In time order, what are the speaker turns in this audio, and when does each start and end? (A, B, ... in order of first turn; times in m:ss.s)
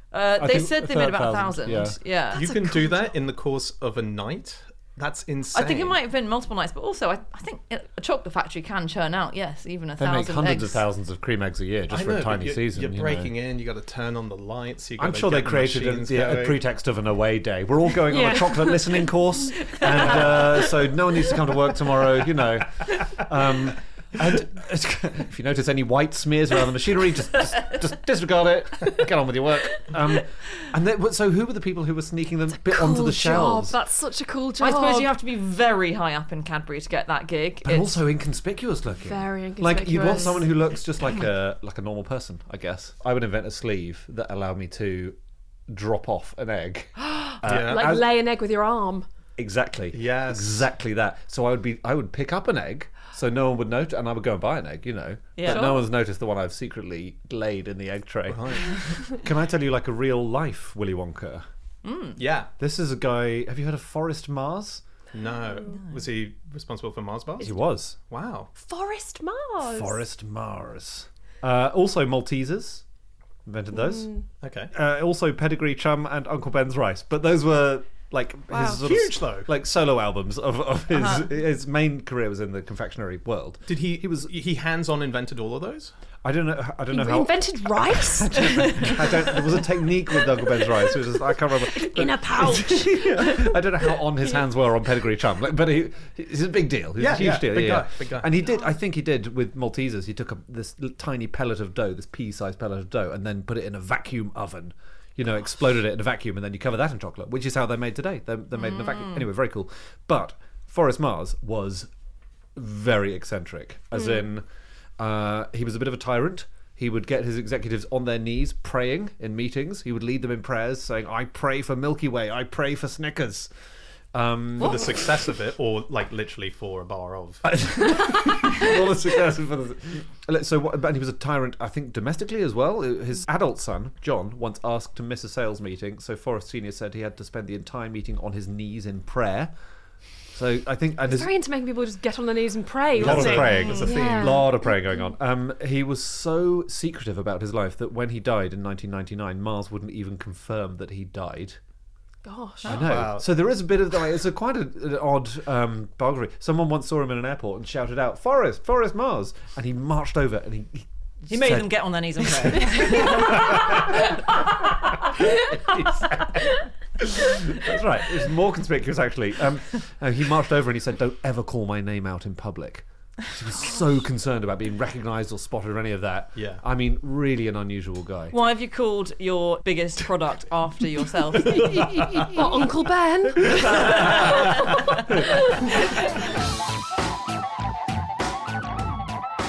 0:00.1-0:02.5 A
0:00.4-0:02.0 B
0:02.3-0:06.0 C
0:02.4-0:02.9 D
0:05.5-0:10.8 A
0:10.0-0:13.3 B
0:11.9-0:16.6 C
0:15.0-0:33.8 B
0:18.1-0:19.9 D
0:32.6-0:35.1 D
0:34.6-0:38.0 A
0:37.6-0:45.2 B
0:39.0-0:40.5 D
0:45.7-0:48.0 B
0:47.4-0:47.9 C
0:47.6-0:49.0 D
0:49.4-1:01.4 B
0:49.9-0:50.6 C
0:55.4-0:55.7 A
0:55.5-0:55.8 D
0:58.3-0:58.8 C
1:01.8-1:02.2 A
1:02.2-1:02.5 C
1:02.6-1:04.8 B
1:05.1-1:08.5 C
1:07.4-1:08.0 B
1:08.6-1:10.0 D
1:09.6-1:12.8 B
1:13.4-1:14.1 B
1:13.7-1:14.2 D
1:14.4-1:14.7 C
1:14.7-1:24.3 B
1:18.5-1:18.8 D
1:18.8-1:19.5 C
1:21.0-1:21.2 A
1:23.7-1:25.9 C
1:26.2-1:27.4 B
1:26.9-1:29.7 D
1:27.9-1:51.9 B
1:30.4-1:30.9 D
1:31.6-1:34.4 D
1:37.0-1:38.3 C
1:52.5-1:54.4 B
1:55.0-2:03.5 B
2:04.1-2:05.2 B
2:04.6-2:07.6 C
2:07.4-2:19.5 B
2:20.3-2:21.3 B
2:21.1-2:24.7 D
2:23.0-2:24.4 C
2:23.0-2:31.6 B
2:32.2-2:32.8 D
2:32.6-2:44.1 B
2:32.7-2:33.3 C
2:41.3-2:43.6 A
2:45.0-2:58.4 B
2:56.4-2:56.6 C
2:58.3-3:01.8 A
3:01.7-3:02.3 B
3:02.2-3:05.8 D
3:03.6-3:04.2 B